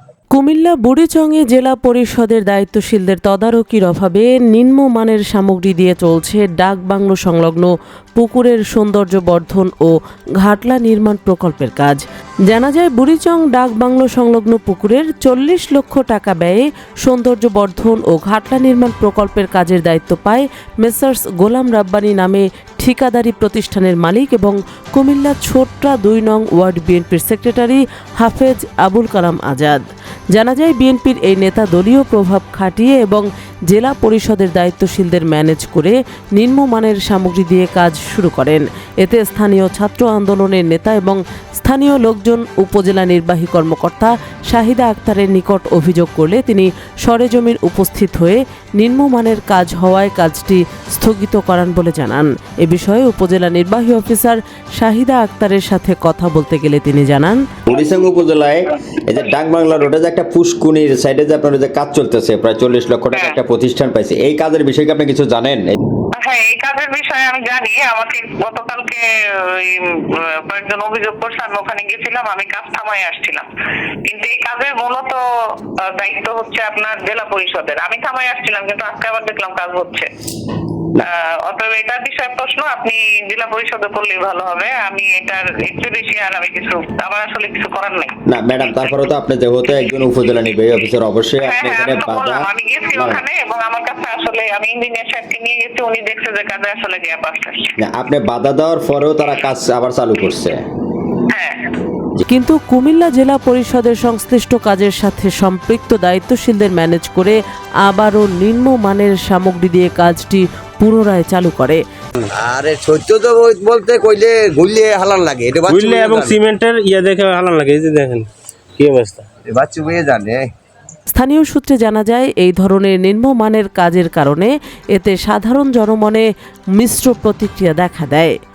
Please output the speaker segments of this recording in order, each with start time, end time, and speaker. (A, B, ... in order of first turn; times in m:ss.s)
0:00.3-0:29.8 A
0:30.3-0:57.4 A
0:57.7-1:05.7 B
1:03.1-1:03.4 C
1:06.2-1:13.5 C
1:14.0-1:20.1 C
1:21.0-1:28.2 C
1:28.3-1:33.2 B
1:31.4-1:37.7 C
1:37.8-1:40.6 B
1:41.3-1:41.7 C
1:42.3-1:51.8 A
1:52.3-1:56.4 D
1:55.7-1:59.2 E
1:59.4-2:00.5 D
2:01.1-2:08.3 A